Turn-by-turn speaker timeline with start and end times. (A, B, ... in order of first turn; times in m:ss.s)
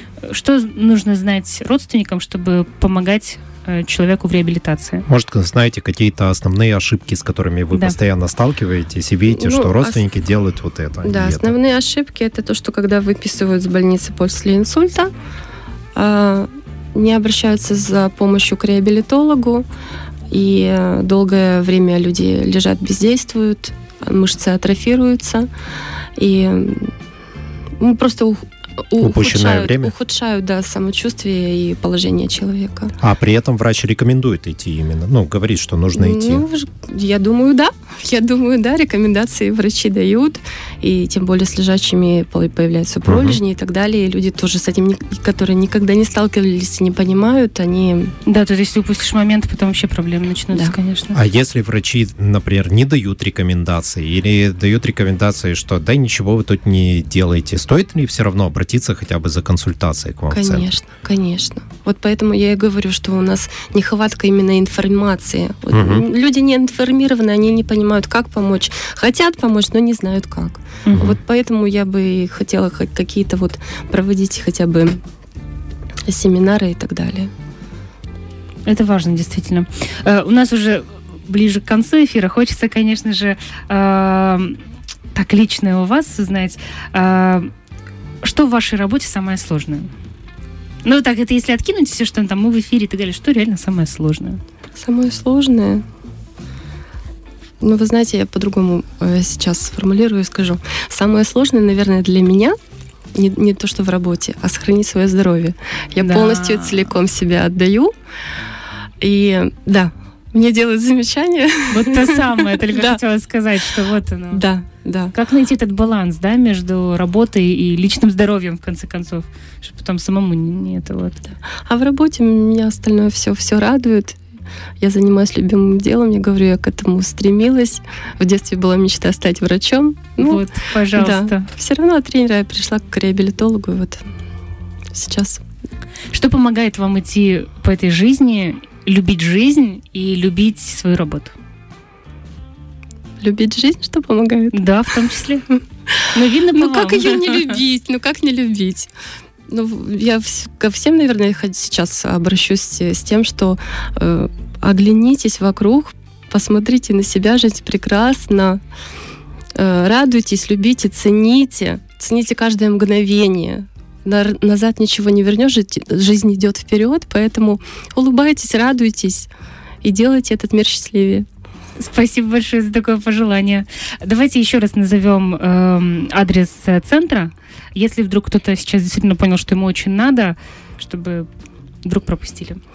0:00.2-0:05.1 A
0:05.1-0:11.5 B
0:09.3-0:10.0 C
0:11.0-0:15.1 C
0:15.9-0:19.6 C
0:20.3-0:25.5 C
0:26.2-0:26.9 C
0:27.8-0:32.9 C
0:29.0-0:29.9 B
0:33.0-0:36.4 B
0:35.9-0:48.1 C
0:43.1-0:43.4 B
0:48.2-0:51.2 A
0:51.1-1:00.7 B
1:00.3-1:15.0 C
1:05.7-1:06.0 B
1:10.8-1:11.2 A
1:16.0-1:17.3 C
1:18.6-1:24.6 A
1:25.1-1:27.5 A
1:28.2-1:29.9 A
1:30.8-1:34.4 A
1:34.8-1:35.8 C
1:37.6-1:42.6 C
1:43.1-1:47.9 C
1:46.0-1:46.8 A
1:49.0-1:53.0 C
1:51.7-1:54.4 A
1:54.3-1:55.1 C
1:55.1-2:01.2 A
2:01.6-2:04.2 C
2:04.8-2:14.0 C
2:10.2-2:11.5 A
2:14.9-2:15.4 C
2:16.1-2:21.3 A
2:23.2-2:24.6 C
2:24.5-2:25.4 A
2:25.5-2:28.9 C
2:26.1-2:27.6 A
2:29.5-2:38.6 C
2:39.5-2:49.3 C
2:49.8-2:51.2 C
2:51.8-3:01.3 A
3:01.8-3:02.6 A